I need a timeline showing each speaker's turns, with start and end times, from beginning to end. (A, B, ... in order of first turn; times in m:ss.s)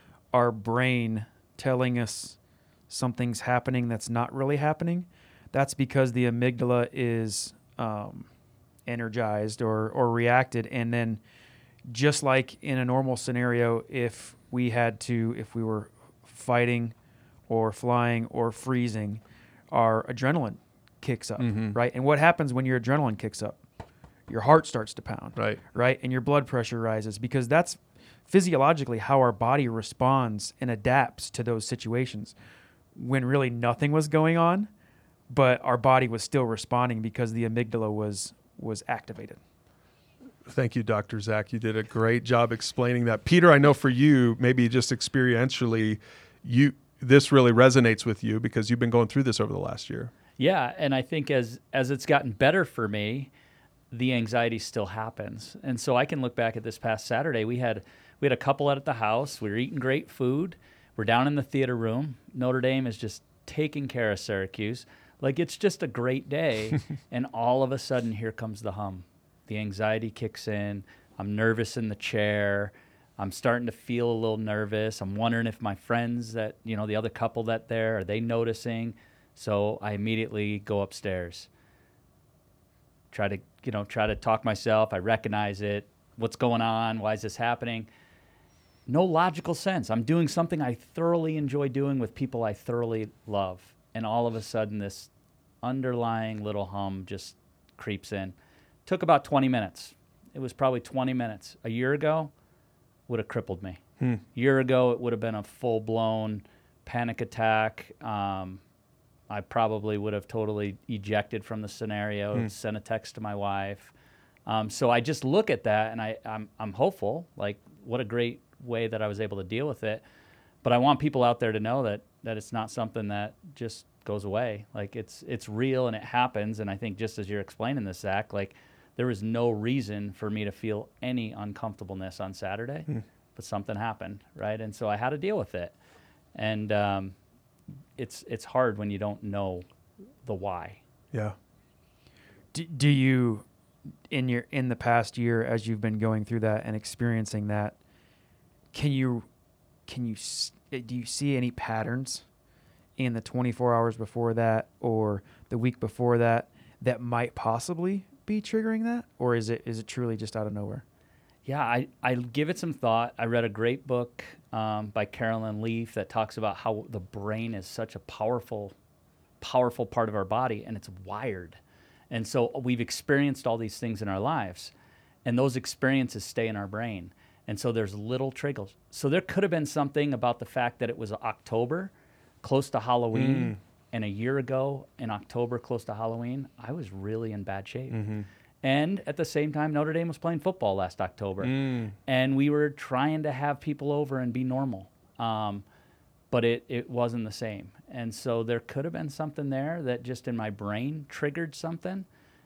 0:00.3-0:02.4 A
0:02.9-0:08.3 A
0:08.9-0:11.2 A
0:11.9-0:17.0 A
0:17.5-0:23.6 A
0:21.4-0:21.8 B
0:24.3-0:32.4 A
0:33.0-0:34.7 A
0:35.3-0:39.4 A
0:40.5-0:50.1 B
0:50.4-0:53.3 C
0:53.9-1:21.5 C
1:23.1-1:27.9 C
1:28.9-1:35.1 C
1:35.6-1:38.3 C
1:38.9-1:42.3 C
1:43.1-1:43.8 C
1:44.3-1:48.6 C
1:49.3-1:53.9 C
1:54.5-2:00.0 C
2:00.6-2:15.7 C
2:16.4-2:17.2 C
2:18.0-2:19.6 C
2:20.2-2:20.8 C
2:22.5-2:23.4 A
2:24.1-2:27.8 A
2:28.7-2:29.3 A
2:29.9-2:32.2 A
2:33.0-2:40.8 A
2:41.5-2:48.7 C
2:49.4-2:51.6 C
2:52.1-2:54.7 C
2:55.2-3:01.9 C
3:02.4-3:08.0 C
3:03.1-3:03.6 B
3:07.9-3:08.3 B
3:08.6-3:11.5 C
3:11.4-3:11.9 B
3:12.1-3:15.6 C
3:16.3-3:22.1 C